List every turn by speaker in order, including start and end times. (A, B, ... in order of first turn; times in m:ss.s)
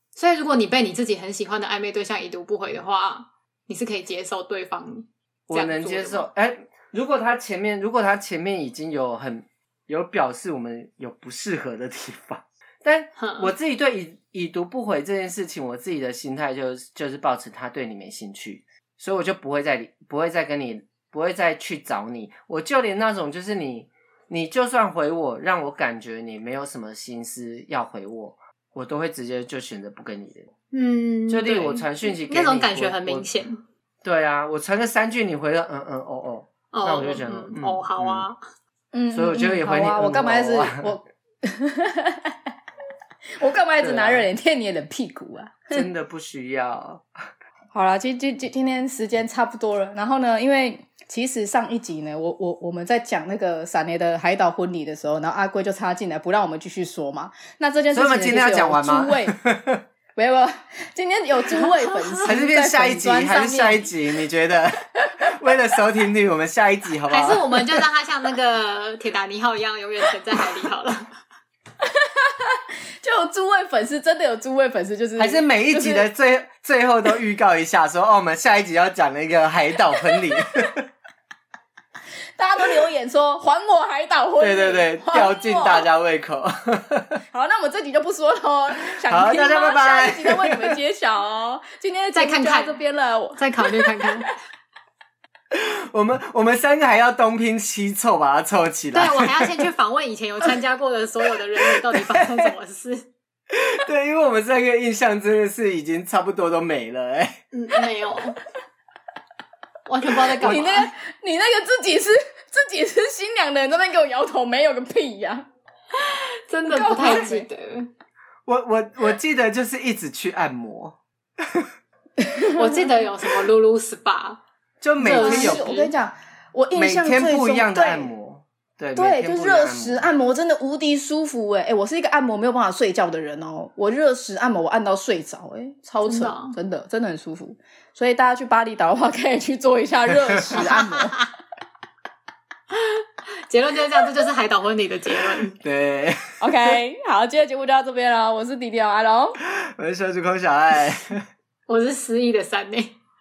0:00.1-0:06.3 A
0:05.5-0:30.5 B
0:13.2-0:13.5 A
0:30.7-0:33.6 A
0:31.3-0:33.2 B
0:34.0-0:38.3 B
0:36.7-0:38.4 A
0:38.9-0:42.4 C
0:39.1-0:40.9 B
0:43.4-0:45.8 C
0:43.8-0:44.3 B
0:45.7-0:47.1 B
0:47.7-0:59.4 C
0:57.9-0:59.8 B
1:00.1-1:03.9 C
1:01.5-1:02.3 A
1:02.2-1:07.8 B
1:05.0-1:05.3 C
1:07.1-1:11.0 A
1:11.8-1:16.1 C
1:15.2-1:20.8 B
1:22.4-1:25.8 C
1:24.4-1:27.2 B
1:27.3-1:34.2 C
1:28.9-1:30.8 B
1:32.1-1:32.8 A
1:33.4-1:34.3 A
1:35.5-1:39.6 B
1:38.9-1:43.1 A
1:41.9-1:42.5 B
1:43.5-1:47.4 B
1:47.5-1:48.4 A
1:49.9-1:50.9 A
1:50.4-1:55.4 C
1:56.0-1:57.9 A
1:56.7-1:57.4 C
1:57.0-1:57.3 B
1:58.4-2:01.7 B
2:02.2-2:02.8 C
2:02.5-2:04.4 A
2:04.8-2:05.6 B
2:05.0-2:05.9 A
2:05.2-2:08.1 C
2:06.7-2:10.0 B
2:09.0-2:21.2 C
2:16.0-2:16.6 A
2:20.1-2:20.4 B
2:20.5-2:21.3 A
2:22.7-2:25.6 A
2:25.6-2:26.4 B
2:26.4-2:29.4 C
2:29.4-2:31.2 B
2:31.7-2:33.0 A